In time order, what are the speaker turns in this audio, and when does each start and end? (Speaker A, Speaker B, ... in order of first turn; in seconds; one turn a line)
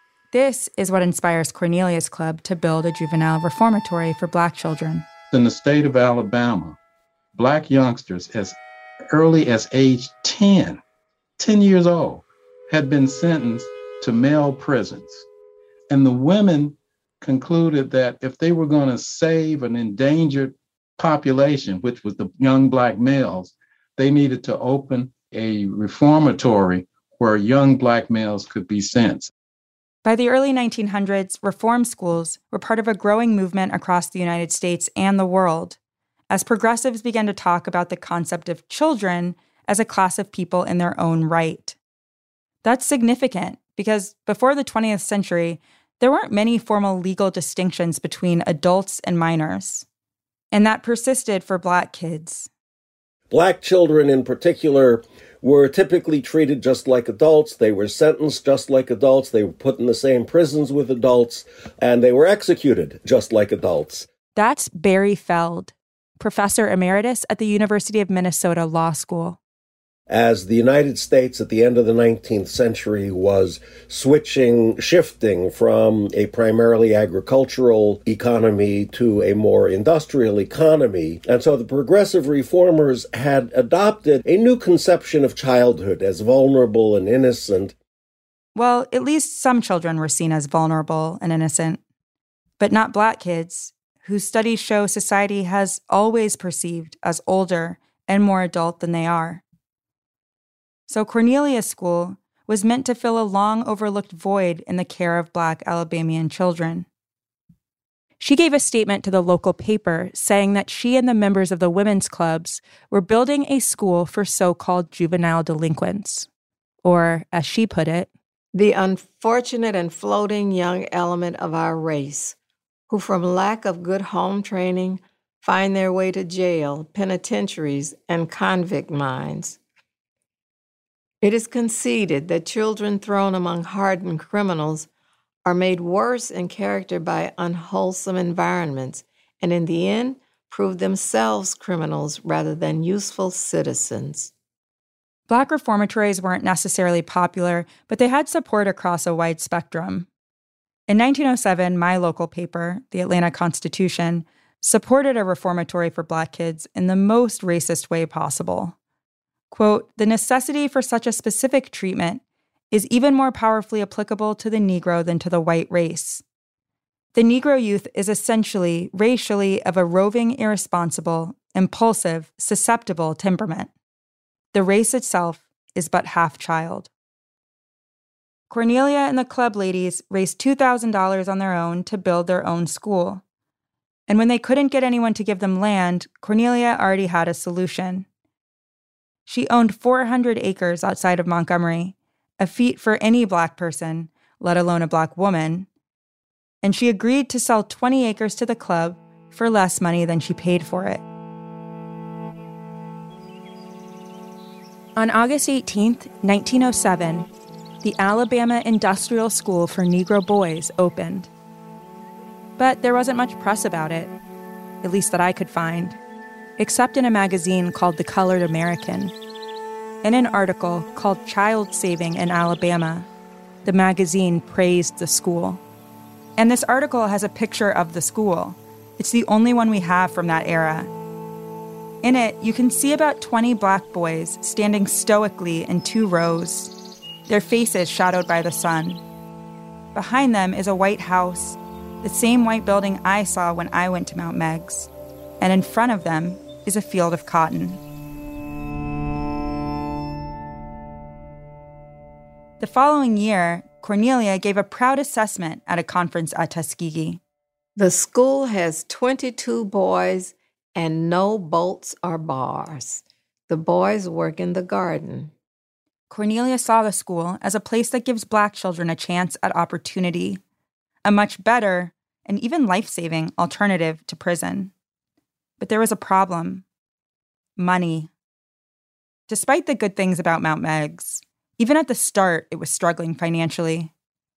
Speaker A: 0.3-5.0
Speaker B: 5.3-6.8
Speaker B: 7.3-8.6
Speaker B: 9.1-10.8
Speaker B: 11.4-15.3
Speaker B: 15.9-29.3
Speaker A: 30.0-35.8
Speaker A: 36.3-41.8
Speaker A: 42.6-49.9
Speaker A: 50.5-52.5
Speaker C: 53.3-64.1
Speaker A: 64.3-69.4
Speaker C: 70.1-87.8
Speaker A: 88.5-91.8
Speaker A: 92.6-99.4
Speaker A: 100.9-106.9
Speaker A: 108.2-116.3
Speaker A: 116.8-118.1
Speaker D: 118.5-122.4
Speaker D: 122.9-129.6
Speaker D: 131.2-134.9
Speaker D: 135.4-144.3
Speaker A: 145.3-150.1
Speaker A: 150.9-158.8
Speaker A: 159.5-166.2
Speaker A: 167.2-173.7
Speaker A: 174.5-176.9
Speaker A: 178.5-183.2
Speaker A: 184.1-188.1
Speaker A: 189.3-195.7
Speaker A: 196.6-201.0
Speaker A: 205.0-207.3
Speaker A: 207.8-211.3
Speaker A: 212.6-214.1
Speaker A: 214.8-216.0
Speaker A: 216.6-219.1
Speaker A: 220.0-223.1
Speaker A: 223.7-225.6
Speaker A: 226.4-230.9
Speaker A: 232.0-236.7
Speaker A: 237.3-239.0
Speaker A: 239.9-247.8
Speaker A: 252.6-257.2
Speaker D: 257.8-265.3
Speaker A: 266.1-270.4
Speaker A: 271.1-274.7
Speaker A: 275.6-276.6
Speaker A: 277.6-278.1
Speaker A: 279.3-283.9